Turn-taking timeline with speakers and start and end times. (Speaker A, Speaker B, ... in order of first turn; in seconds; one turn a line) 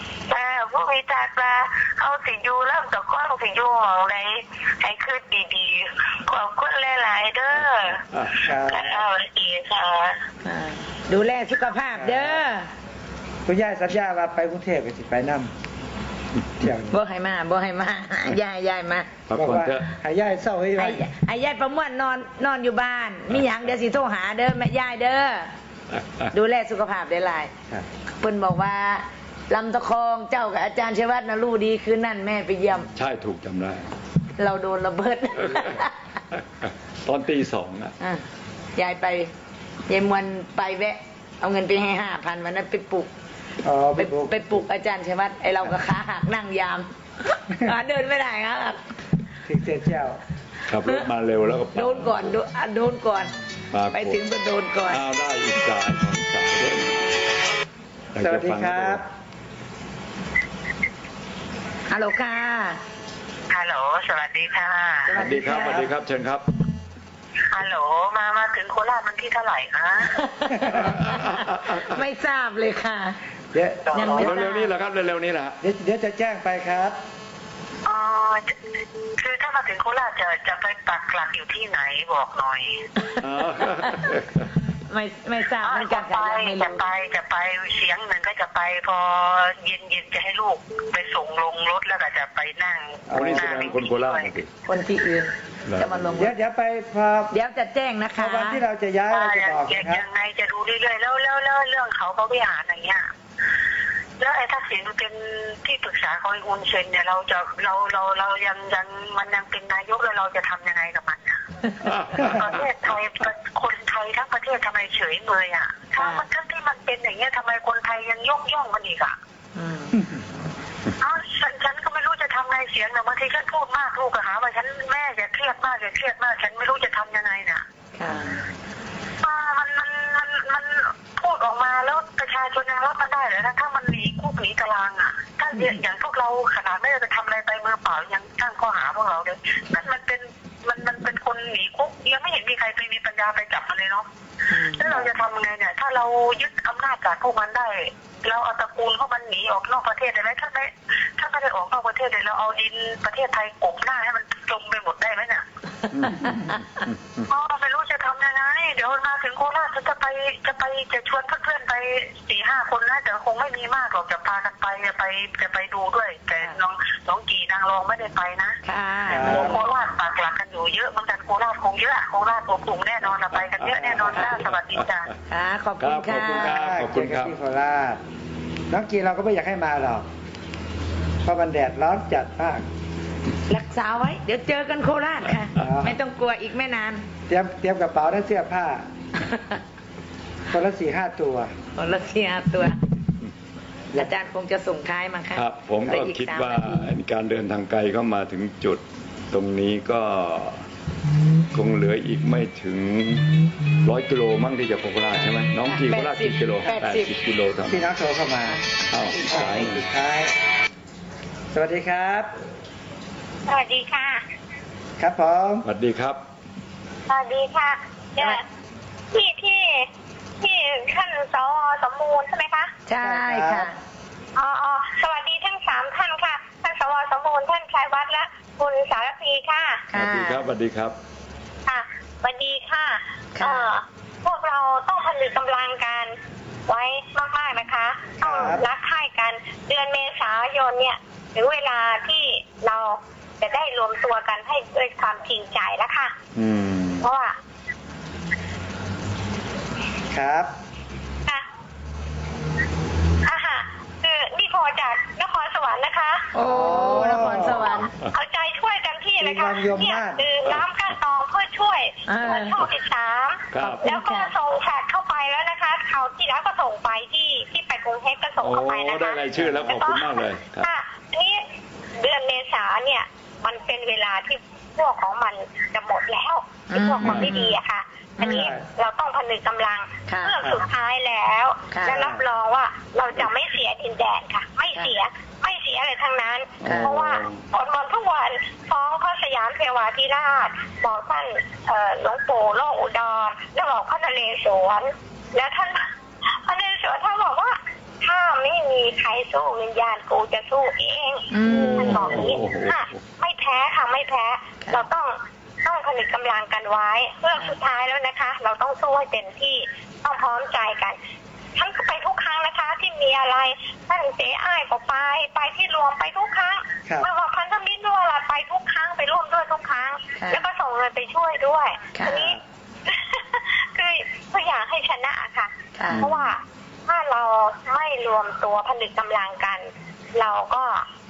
Speaker A: 0.3-8.0
Speaker B: 7.7-8.5
Speaker C: 8.4-9.0
Speaker A: 8.7-10.2
Speaker D: 10.4-12.7
Speaker C: 11.9-12.4
Speaker C: 13.4-15.5
Speaker C: 16.6-17.0
Speaker D: 16.9-19.1
Speaker B: 19.2-19.9
Speaker C: 19.3-21.1
Speaker D: 20.8-25.5
Speaker D: 26.3-27.5
Speaker D: 28.2-32.9
Speaker B: 32.9-33.9
Speaker D: 34.4-35.9
Speaker B: 37.0-37.9
Speaker D: 38.8-39.3
Speaker D: 39.9-43.1
Speaker C: 43.6-44.6
Speaker D: 44.0-48.8
Speaker C: 49.5-50.2
Speaker B: 50.7-52.4
Speaker D: 51.7-53.4
Speaker B: 53.7-54.2
Speaker D: 53.9-55.0
Speaker B: 54.8-57.0
Speaker B: 58.1-59.0
Speaker C: 58.2-59.0
Speaker D: 61.9-62.8
Speaker E: 63.5-65.2
Speaker D: 65.1-65.9
Speaker B: 65.1-66.5
Speaker E: 67.5-70.0
Speaker D: 70.2-73.2
Speaker C: 70.5-70.9
Speaker B: 70.7-72.0
Speaker C: 73.5-74.0
Speaker D: 73.9-74.7
Speaker E: 73.9-74.4
Speaker B: 74.0-75.6
Speaker C: 75.6-77.0
Speaker E: 77.8-78.4
Speaker E: 79.2-82.7
Speaker B: 83.2-84.5
Speaker D: 84.9-86.8
Speaker E: 85.6-94.3
Speaker C: 93.1-93.8
Speaker B: 93.1-94.5
Speaker D: 94.6-96.3
Speaker B: 95.7-96.2
Speaker C: 96.1-97.3
Speaker D: 97.3-98.6
Speaker C: 98.2-100.0
Speaker E: 99.1-103.0
Speaker E: 104.2-111.4
Speaker B: 111.9-112.5
Speaker E: 112.3-119.1
Speaker D: 116.0-116.2
Speaker D: 119.5-120.0
Speaker E: 121.0-127.6
Speaker D: 128.0-128.4
Speaker B: 128.1-128.5
Speaker E: 129.2-144.0
Speaker D: 144.5-144.8
Speaker E: 144.8-155.4
Speaker B: 155.9-157.2
Speaker E: 157.3-168.6
Speaker D: 168.6-169.5
Speaker C: 169.1-169.6
Speaker E: 169.3-175.1
Speaker B: 169.3-169.7
Speaker C: 173.7-174.3
Speaker D: 175.3-176.6
Speaker B: 175.8-177.3
Speaker C: 176.3-178.0
Speaker C: 178.7-180.1
Speaker C: 181.2-182.6
Speaker D: 183.5-187.0
Speaker B: 185.3-185.8
Speaker C: 185.6-186.0
Speaker C: 187.3-188.8
Speaker D: 189.3-189.5
Speaker C: 190.5-191.5
Speaker D: 191.8-192.8
Speaker D: 193.9-196.9
Speaker B: 195.3-200.6
Speaker B: 201.5-203.3
Speaker B: 203.8-207.8
Speaker D: 205.6-207.1
Speaker C: 207.6-208.6
Speaker B: 208.9-209.8
Speaker C: 209.2-210.3
Speaker C: 211.5-212.3
Speaker F: 213.5-214.2
Speaker C: 215.0-215.7
Speaker B: 215.6-216.2
Speaker F: 217.1-218.4
Speaker F: 219.1-219.9
Speaker F: 220.4-222.7
Speaker D: 222.9-223.7
Speaker C: 223.0-223.7
Speaker F: 224.3-229.8
Speaker D: 229.9-230.4
Speaker B: 229.9-231.0
Speaker F: 231.7-236.1
Speaker D: 233.3-233.7
Speaker F: 236.7-246.1
Speaker C: 238.2-238.7
Speaker B: 246.3-247.1
Speaker F: 247.0-247.3
Speaker C: 250.1-250.5
Speaker F: 253.3-271.4
Speaker D: 256.3-257.9
Speaker C: 256.4-257.7
Speaker C: 259.2-260.3
Speaker D: 262.1-262.6
Speaker B: 262.2-262.7
Speaker B: 263.5-263.8
Speaker D: 263.6-264.3
Speaker B: 268.4-270.7
Speaker C: 269.4-269.7
Speaker F: 272.0-295.8
Speaker D: 276.7-277.6
Speaker D: 278.2-278.5
Speaker C: 278.3-278.6
Speaker D: 280.1-280.4
Speaker D: 281.7-282.0
Speaker C: 281.9-282.2
Speaker D: 286.6-287.0
Speaker B: 286.6-287.4
Speaker F: 296.4-311.0
Speaker D: 301.3-302.2
Speaker B: 301.4-303.0
Speaker D: 304.6-304.9
Speaker F: 311.6-330.8
Speaker D: 320.1-320.4
Speaker D: 321.9-322.3
Speaker D: 325.8-326.1